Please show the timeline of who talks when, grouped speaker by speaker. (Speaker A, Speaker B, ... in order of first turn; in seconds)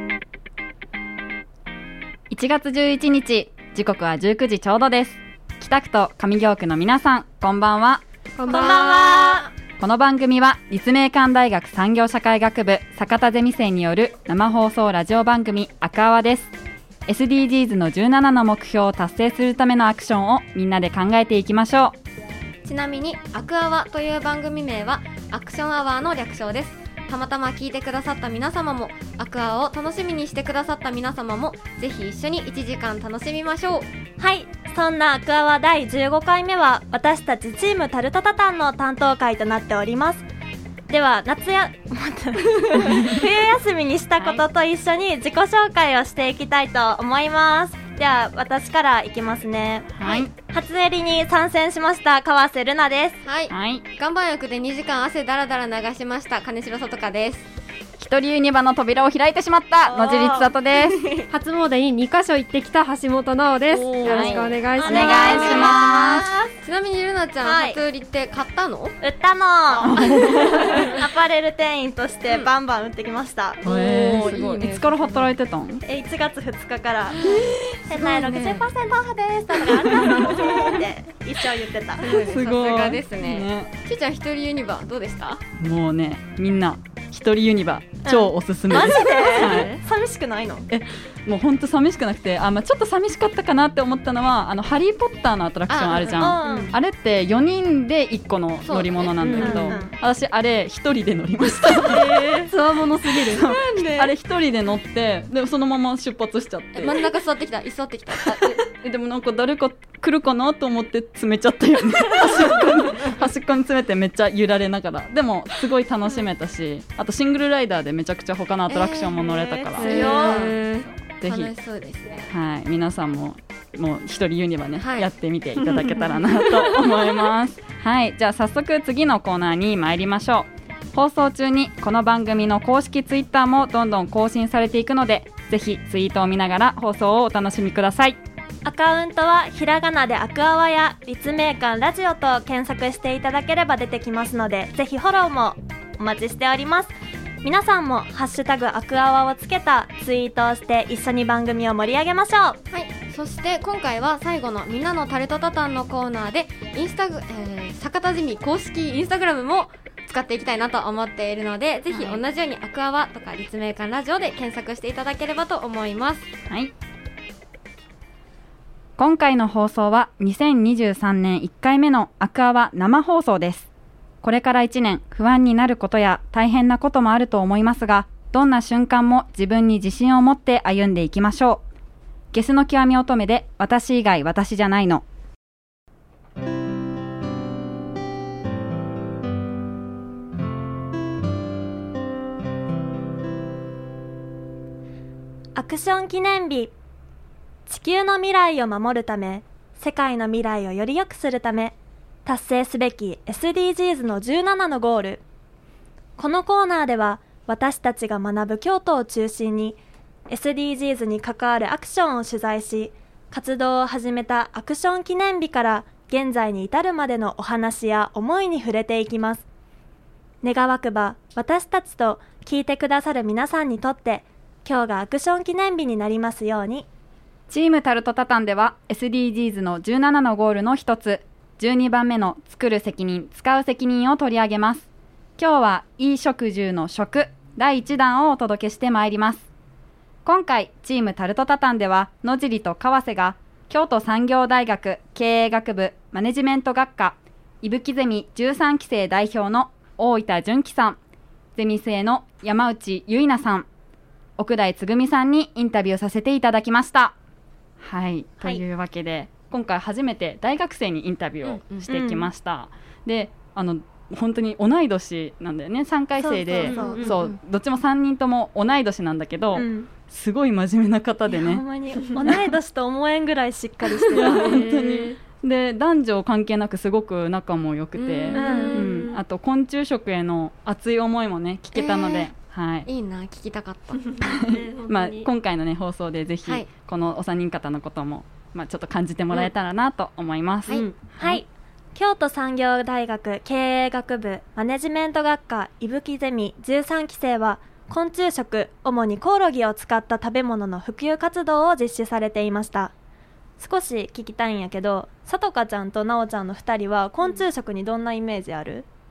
Speaker A: 2.3-8.0, 9.8-16.5, 17.1-22.0, 42.9-43.3, 49.9-50.3, 53.5-53.9, 58.0-61.1, 63.7-66.3, 69.8-70.8, 73.6-75.8, 79.8-80.4, 82.1-83.7, 85.6-89.8, 90.7-102.5, 103.0-107.1, 108.2-120.5, 121.2-121.5, 122.3-138.2, 161.9-162.2, 169.0-173.7, 174.2-181.6, 182.3-185.0, 227.5-239.5, 240.2-251.0, 251.6-253.7, 254.4-257.1, 257.8-271.6, 272.2-272.5, 274.1-282.9, 284.2-291.4
Speaker B: 8.4-9.4, 61.3-65.5, 89.3-89.8, 99.2-99.8, 101.9-103.5, 119.8-120.9, 266.6-267.1, 274.1-275.2, 278.3-279.1, 284.0-285.3, 290.7-291.0
Speaker C: 8.5-9.5, 34.2-40.2, 40.9-53.2, 59.9-60.5, 64.8-66.5, 67.4-67.8, 69.0-73.6, 75.8-77.2, 77.9-82.1, 88.0-90.7, 96.2-96.7, 99.4-99.9, 119.2-120.4, 138.6-152.6, 195.6-196.7, 197.7-205.2, 206.2-219.4, 220.4-226.9, 261.9-262.3, 266.2-267.1, 269.5-269.9, 271.3-274.5, 278.4-278.9, 291.2-302.9, 303.6-308.9
Speaker D: 8.7-9.4, 22.6-33.9, 53.2-57.5, 60.8-61.3, 64.0-69.0, 73.6-75.3, 77.2-78.7, 80.1-80.7, 82.0-85.5, 95.7-96.7, 98.7-99.8, 101.8-102.5, 103.3-104.1, 106.7-108.7, 118.7-119.2, 119.8-120.7, 121.2-122.3, 124.8-125.1, 126.0-126.8, 152.7-166.3, 261.4-261.9, 267.0-267.4, 278.0-279.0, 281.8-282.3, 282.9-284.2